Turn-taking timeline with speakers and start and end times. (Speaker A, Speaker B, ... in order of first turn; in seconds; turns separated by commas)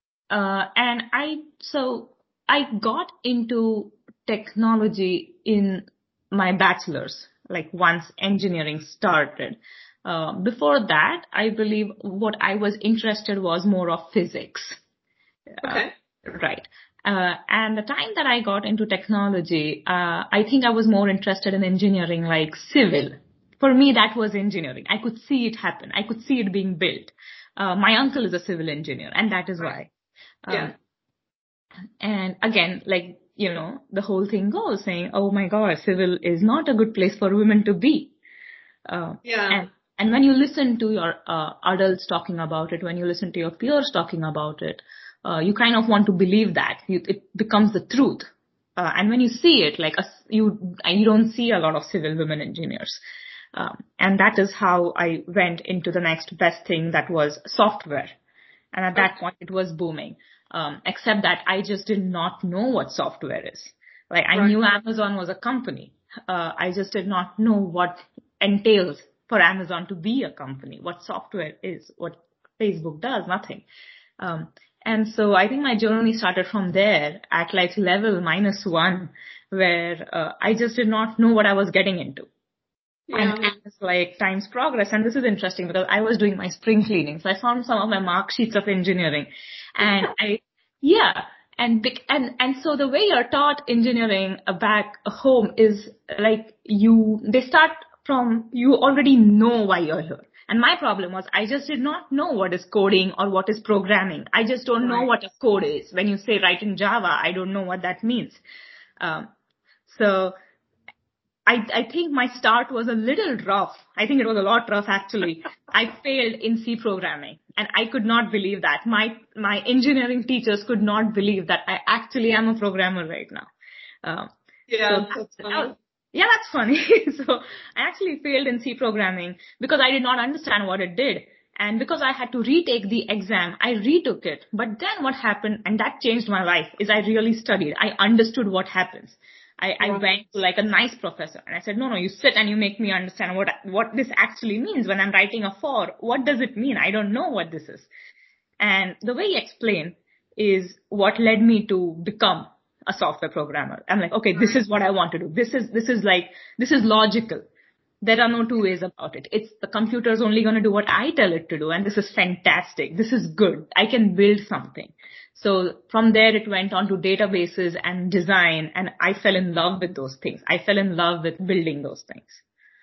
Speaker A: 0.3-14.8, Speaker A: 15.6-29.9, Speaker B: 15.6-15.9, Speaker A: 30.4-30.8, Speaker A: 32.0-38.1, Speaker A: 38.9-53.0, Speaker B: 39.2-39.6, Speaker A: 53.5-58.1, Speaker A: 58.7-73.7, Speaker A: 74.2-82.3, Speaker B: 83.1-83.5, Speaker A: 83.1-108.4, Speaker B: 104.8-105.1, Speaker A: 109.0-109.3, Speaker A: 109.9-110.3, Speaker A: 111.5-123.5, Speaker A: 124.0-124.3, Speaker B: 124.7-125.8, Speaker A: 124.8-147.9, Speaker B: 139.8-140.1, Speaker A: 148.6-157.4, Speaker B: 154.4-154.6, Speaker A: 158.0-172.4